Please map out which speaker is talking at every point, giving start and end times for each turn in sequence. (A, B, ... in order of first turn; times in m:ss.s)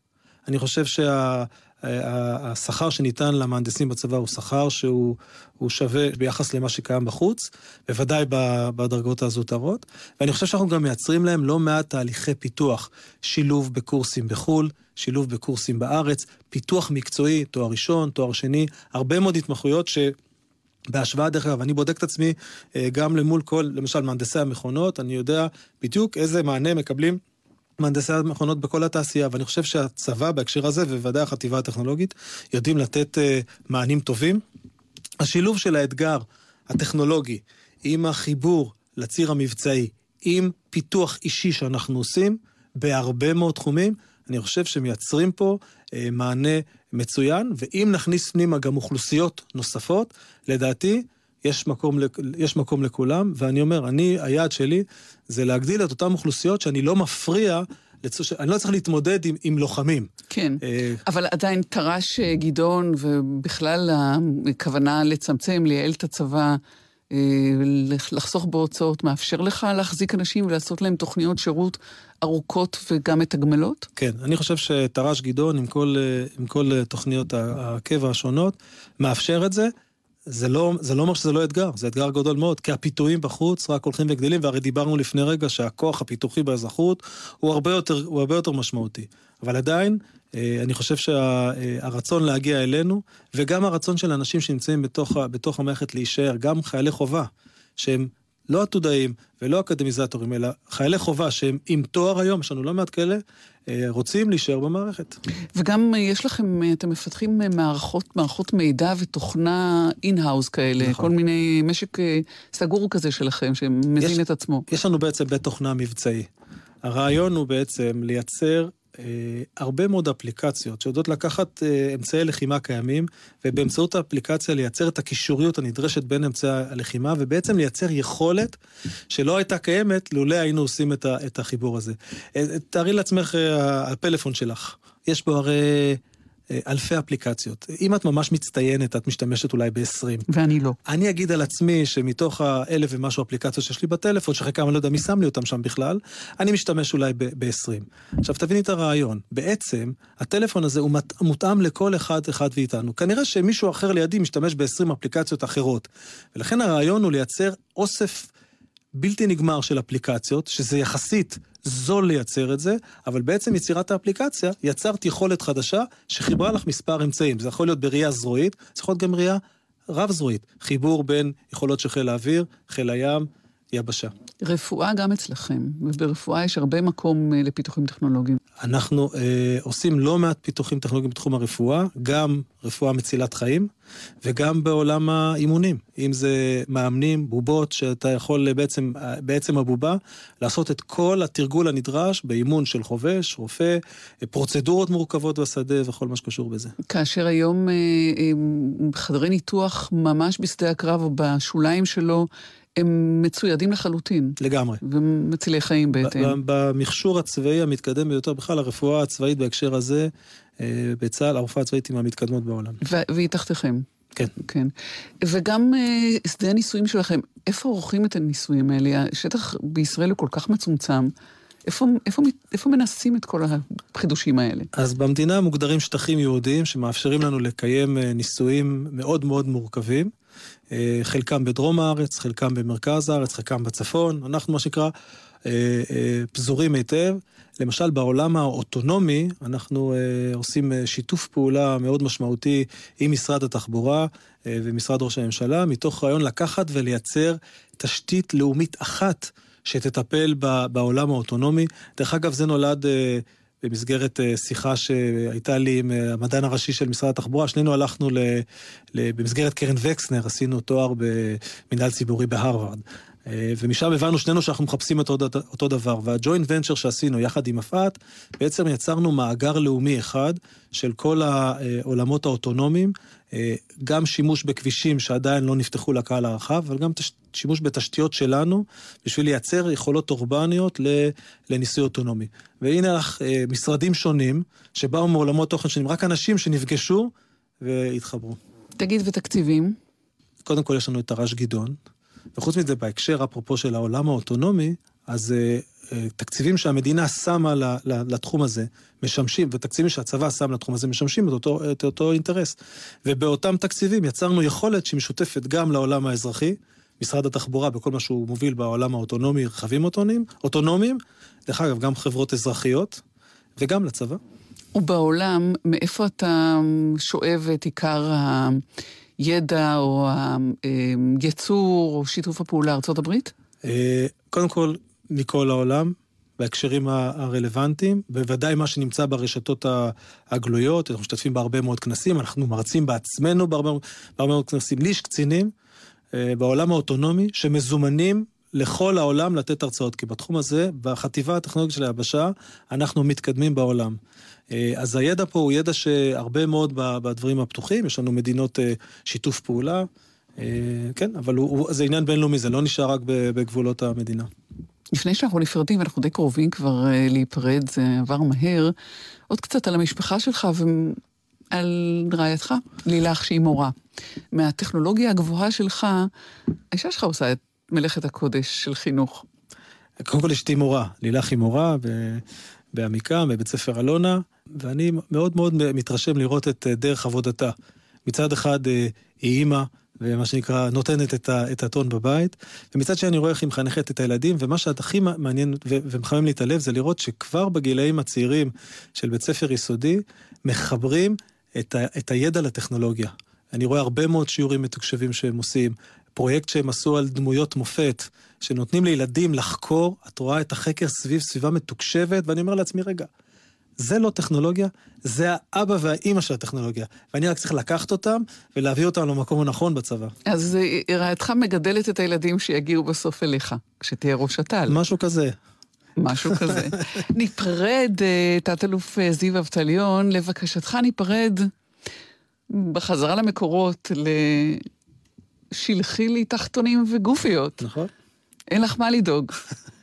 0:00.4-0:20.1 A
0:20.9-0:27.2 A
0:27.8-0:34.4 A
0:35.2-1:00.1 A
1:00.3-1:06.6 B
1:00.6-1:01.0 A
1:07.1-1:13.9 B
1:14.0-1:19.7 A
1:20.3-1:45.2 A
1:45.6-1:54.6 B
1:50.8-1:51.1 A
1:54.0-1:56.3 A
1:56.8-2:08.6 A
2:09.1-2:16.0 A
2:16.5-2:20.2 A
2:20.3-2:20.8 B
2:20.8-2:38.3 A
2:38.9-2:54.1 A
2:54.4-2:58.4 B
2:58.6-3:03.7 A
3:04.2-3:16.7 A
3:16.9-3:26.4 B
3:24.4-3:24.8 A
3:25.9-3:32.8 A
3:32.8-3:33.8 B
3:34.4-3:41.1 B
3:41.6-3:44.7 B
3:44.7-3:50.1 A
3:50.7-3:54.9 A
3:55.4-4:48.4 A
4:48.8-4:49.8 B
4:50.4-4:51.8 A
4:52.4-5:13.0 A
5:13.6-5:14.2 A
5:14.7-5:18.6 B
5:19.2-5:23.3 B
5:23.6-5:35.5 A
5:36.1-5:44.0 A
5:44.5-5:54.3 A
5:54.9-5:58.7 B
5:59.3-6:01.0 B
6:01.5-6:03.7 B
6:04.3-6:06.1 B
6:06.7-6:09.2 B
6:10.0-6:17.5 A
6:18.0-6:43.1 A
6:43.8-6:50.1 A
6:50.3-6:54.8 B
6:54.7-6:55.4 A
6:56.0-7:01.5 B
6:56.3-6:56.7 A
7:02.5-7:04.7 B
7:05.5-7:07.6 B
7:07.6-7:07.9 A
7:08.5-7:09.4 B